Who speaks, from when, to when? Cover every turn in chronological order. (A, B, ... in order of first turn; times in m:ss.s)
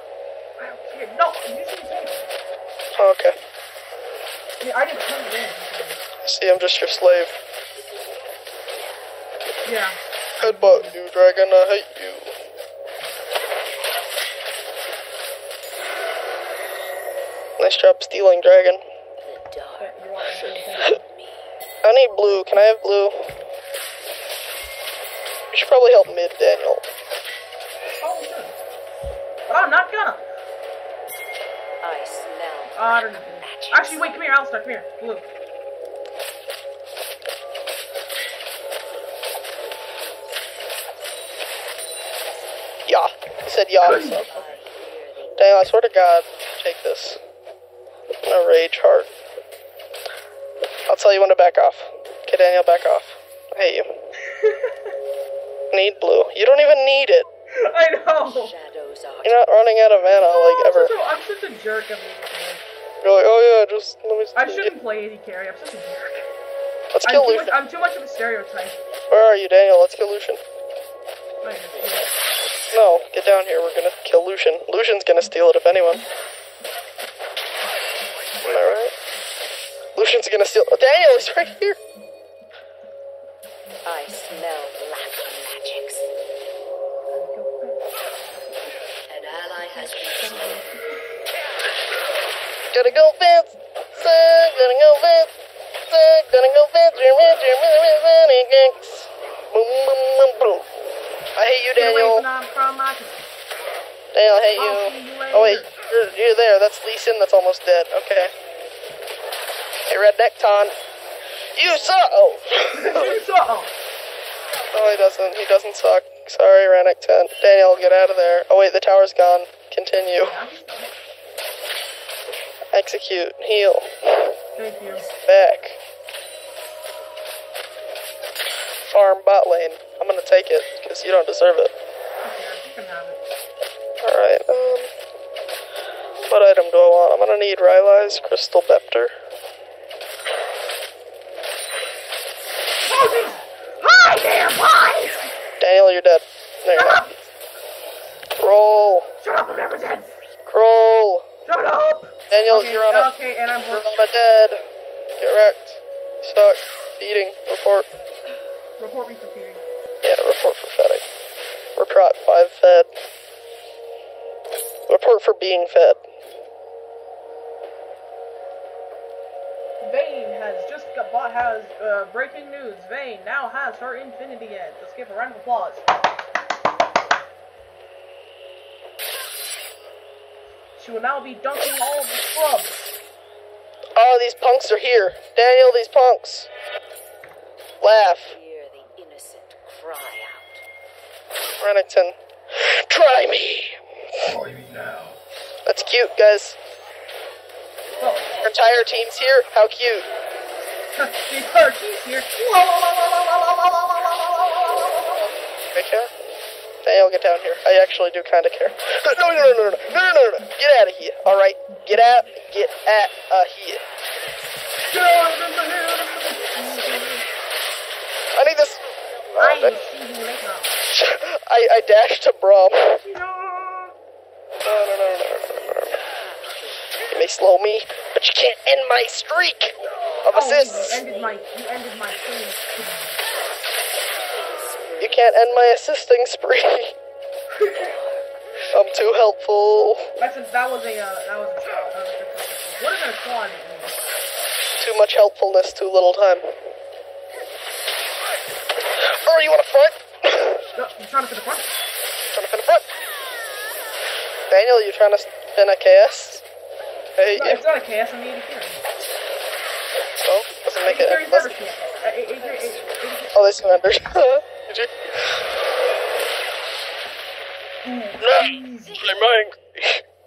0:00.6-0:02.3 A
0:03.0-0:03.4 B
0:04.6-0:06.0 A
0:06.2-0:07.3 B
0:09.6-0:10.9 A
0:10.4-0:12.4 B
0:17.6-0:18.8 B
0:19.2-0:21.6 C
0:19.8-0:21.0 A
0:21.8-0:23.4 B
0:25.5-0:26.8 B
0:28.0-0:28.6 A
0:29.5-0:30.2 A
0:31.8-0:34.2 C
0:32.7-0:35.3 A
0:42.9-0:44.2 B
0:43.8-0:44.6 A
0:44.3-0:46.5 C
0:45.4-0:47.2 B
0:48.2-0:49.1 B
0:50.9-0:53.9 B
0:54.3-0:54.9 A
0:55.7-0:57.3 B
0:57.5-0:58.5 A
0:58.2-0:59.4 C
0:59.2-1:00.9 B
1:00.2-1:02.7 A
1:03.0-1:04.7 B
1:04.4-1:06.3 A
1:06.9-1:07.5 B
1:07.0-1:08.8 A
1:09.1-1:10.4 B
1:11.4-1:12.1 A
1:11.8-1:12.1 C
1:12.7-1:16.0 B
1:18.4-1:18.9 B
1:20.0-1:21.8 B
1:23.8-1:26.1 C
1:27.1-1:27.8 A
1:29.1-1:30.6 C
1:30.2-1:30.9 A
1:32.7-1:35.3 B
1:35.9-1:40.7 B
1:41.4-1:42.3 B
1:41.8-1:43.3 A
1:44.1-1:48.3 B
1:44.6-1:45.7 A
1:49.9-1:50.7 B
1:51.6-1:53.2 B
1:52.7-1:53.7 A
1:54.7-2:00.4 B
2:00.2-2:00.9 A
2:02.7-2:04.4 B
2:04.6-2:05.1 A
2:05.2-2:05.8 B
2:08.9-2:11.7 B
2:12.2-2:13.2 A
2:14.0-2:14.9 B
2:16.3-2:19.1 B
2:22.9-2:25.3 A
2:25.6-2:27.1 B
2:26.7-2:27.1 A
2:28.4-2:29.1 B
2:29.2-2:30.1 A
2:30.5-2:31.2 B
2:31.5-2:33.9 A
2:32.3-2:33.1 B
2:33.7-2:34.6 B
2:35.2-2:37.9 B
2:38.8-2:39.6 A
2:40.0-2:41.0 B
2:41.8-2:42.9 B
2:44.9-2:46.0 B
2:49.8-2:55.8 A
3:00.8-3:02.9 A
3:04.0-3:06.5 B
3:07.8-3:08.4 B
3:08.3-3:10.6 C
3:11.6-3:13.8 B
3:14.3-3:15.2 A
3:15.7-3:16.6 B
3:18.0-3:18.4 A
3:18.4-3:20.1 B
3:21.0-3:25.3 A
3:25.7-3:26.1 B
3:26.8-3:33.8 B
3:29.4-3:30.0 A
3:34.9-3:37.3 A
3:36.6-3:37.0 C
3:38.4-3:38.8 B
3:39.3-3:39.8 B
3:39.4-3:40.8 A
3:40.9-3:43.0 B
3:43.0-3:43.9 A
3:44.6-3:46.0 B
3:45.5-3:47.0 C
3:47.1-3:51.0 B
3:50.3-3:53.2 A
3:51.0-3:51.3 C
3:54.3-3:55.7 C
3:55.0-3:56.9 B
3:57.6-3:57.9 A
3:57.7-3:59.2 C
3:58.7-4:00.1 B
4:00.2-4:04.0 A
4:04.8-4:06.5 B
4:09.2-4:10.6 B
4:10.8-4:11.8 A
4:12.3-4:12.8 B
4:14.5-4:16.4 B
4:17.2-4:17.6 B
4:17.4-4:18.8 A
4:20.2-4:21.6 B
4:20.7-4:24.0 A
4:22.2-4:22.4 C
4:23.3-4:25.4 B
4:27.8-4:29.1 A
4:28.2-4:30.0 B